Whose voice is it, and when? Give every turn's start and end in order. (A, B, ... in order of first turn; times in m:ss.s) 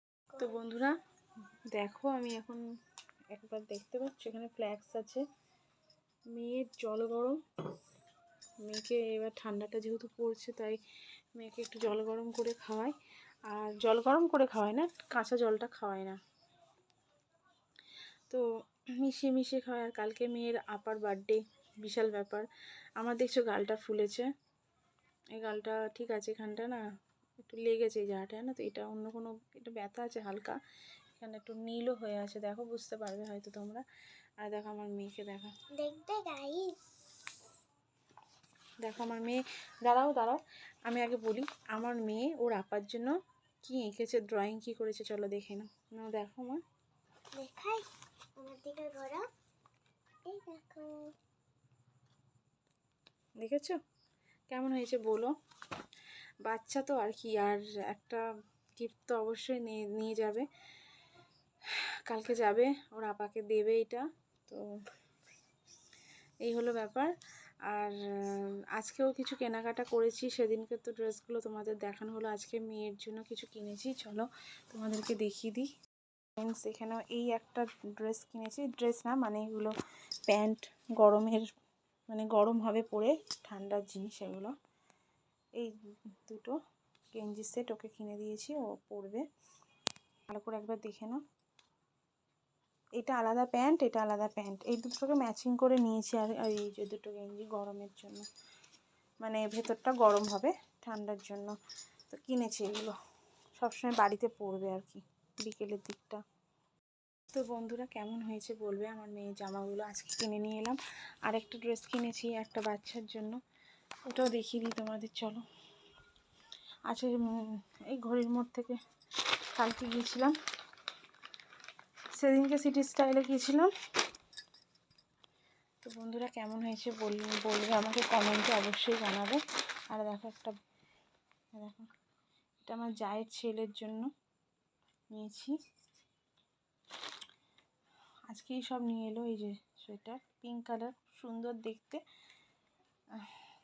0:00.3-0:00.5 A
0:00.4-0:00.9 B
0:01.7-0:02.6 B
0:03.3-0:05.2 B
0:06.3-0:07.4 B
0:08.6-0:10.8 B
0:11.3-0:13.0 B
0:13.5-0:16.2 B
0:19.0-0:22.5 B
0:23.0-0:24.3 B
0:25.4-0:26.8 B
0:27.4-0:30.6 B
0:31.2-0:33.8 B
0:34.4-0:35.5 B
0:35.8-0:36.8 A
0:38.8-0:43.1 B
0:43.6-0:46.6 B
0:47.4-0:47.9 A
0:48.4-0:49.2 A
0:50.3-0:51.1 A
0:53.4-0:53.8 B
0:54.5-0:55.3 B
0:56.4-0:58.2 B
0:58.8-1:00.5 B
1:02.1-1:04.6 B
1:06.4-1:07.1 B
1:07.7-1:15.7 B
1:16.4-1:19.7 B
1:20.3-1:21.5 B
1:22.1-1:24.5 B
1:26.2-1:26.6 B
1:27.1-1:29.2 B
1:30.3-1:31.2 B
1:33.0-1:38.3 B
1:39.2-1:41.6 B
1:42.1-1:43.0 B
1:43.6-1:46.2 B
1:47.3-1:53.4 B
1:54.1-1:55.4 B
1:56.9-1:58.8 B
1:59.6-2:00.3 B
2:02.2-2:03.7 B
2:05.8-2:09.4 B
2:09.9-2:10.6 B
2:11.6-2:11.9 B
2:12.6-2:14.1 B
2:15.1-2:15.6 B
2:18.3-2:22.0 B